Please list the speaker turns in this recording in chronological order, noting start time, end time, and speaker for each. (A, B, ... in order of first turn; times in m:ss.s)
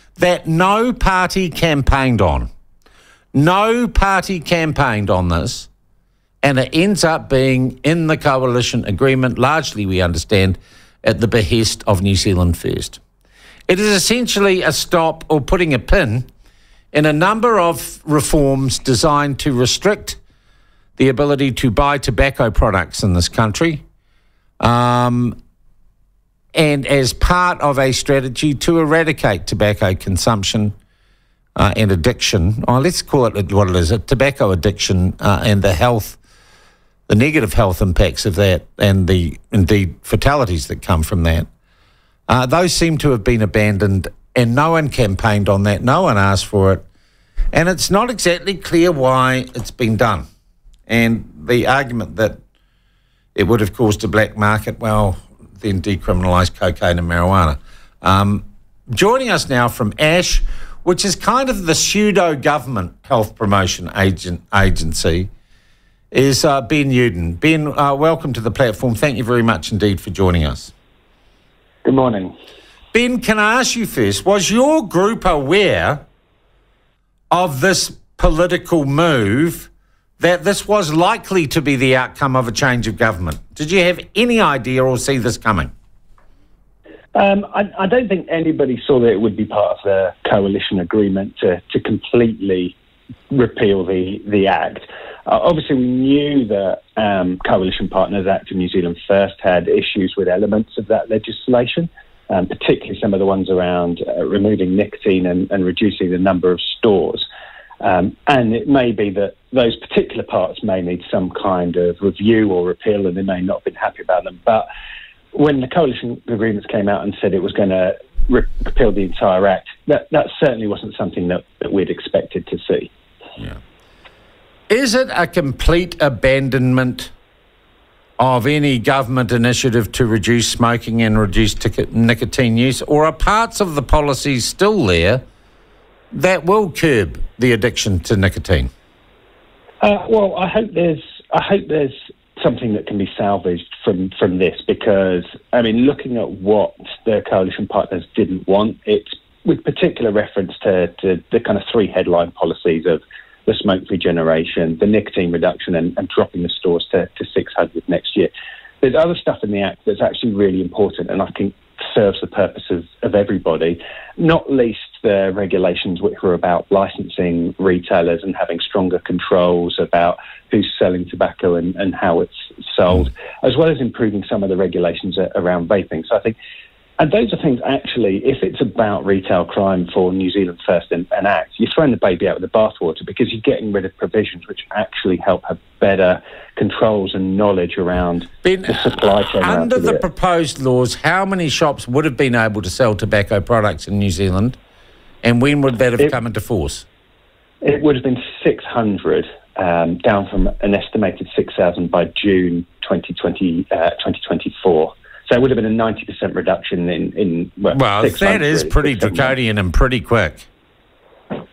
0:00.2-0:02.5 A
0:03.3-0:05.7 A
0:06.4-0:13.0 A
0:13.7-0:16.3 A
0:16.9-0:20.2 A
0:21.0-0:23.8 A
0:24.6-0:25.4 A
0:26.6-0:30.7 A
0:31.6-0:36.2 A
0:37.1-0:41.5 A
0:42.3-0:46.8 A
0:47.5-0:50.2 A
0:50.9-0:52.4 A
0:53.4-1:05.3 A
1:06.1-1:10.7 A
1:11.8-1:12.3 B
1:12.9-1:16.0 A
1:17.3-1:25.7 A
1:27.2-1:32.8 B
1:33.3-1:47.3 B
1:47.8-1:54.7 B
1:55.3-2:02.9 B
2:04.7-2:07.1 A
2:08.2-2:15.2 A
2:16.1-2:18.7 A
2:19.8-2:56.4 B
2:57.0-3:10.0 B
3:08.4-3:14.6 A
3:15.2-3:16.9 A
3:17.6-3:29.4 B
3:27.7-3:30.5 A